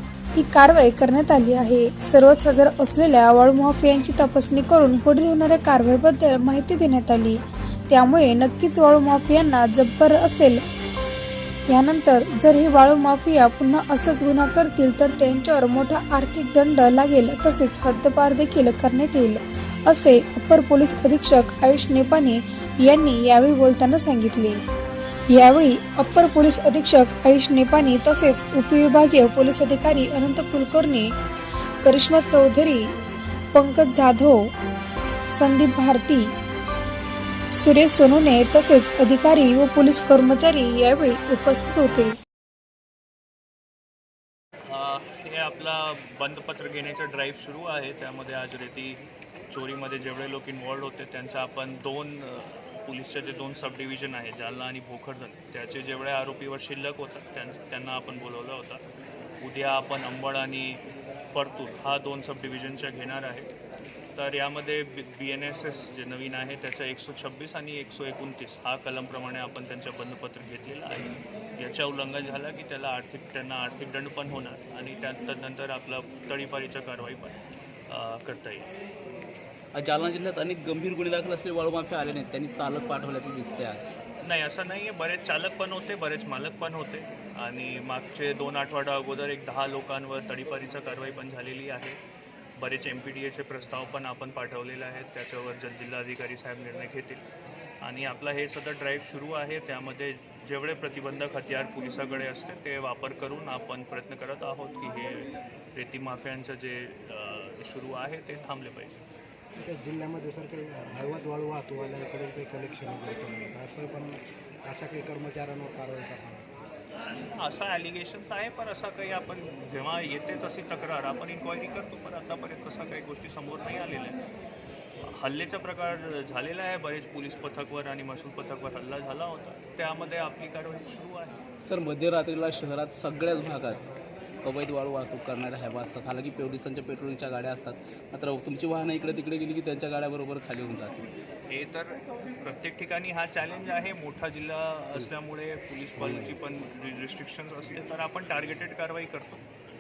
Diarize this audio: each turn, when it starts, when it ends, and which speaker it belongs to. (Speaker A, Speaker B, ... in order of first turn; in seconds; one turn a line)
Speaker A: 0.4-10.6
Speaker A: 11.7-24.6
Speaker A: 25.4-31.1
Speaker A: 31.8-32.9
Speaker A: 33.5-34.5
Speaker A: 35.3-36.3
Speaker A: 37.5-42.1
Speaker B: 44.7-58.8
Speaker B: 59.4-60.8
Speaker B: 61.3-63.5
Speaker B: 64.2-78.7
Speaker C: 79.8-83.9
Speaker B: 84.2-92.0
Speaker B: 92.6-97.2
Speaker B: 97.8-109.0
Speaker D: 109.6-116.5
Speaker B: 117.0-124.2
Speaker B: 125.0-131.4
Speaker C: 131.6-133.8
Speaker C: 134.4-141.2
Speaker B: 141.5-149.4
Speaker C: 146.0-146.4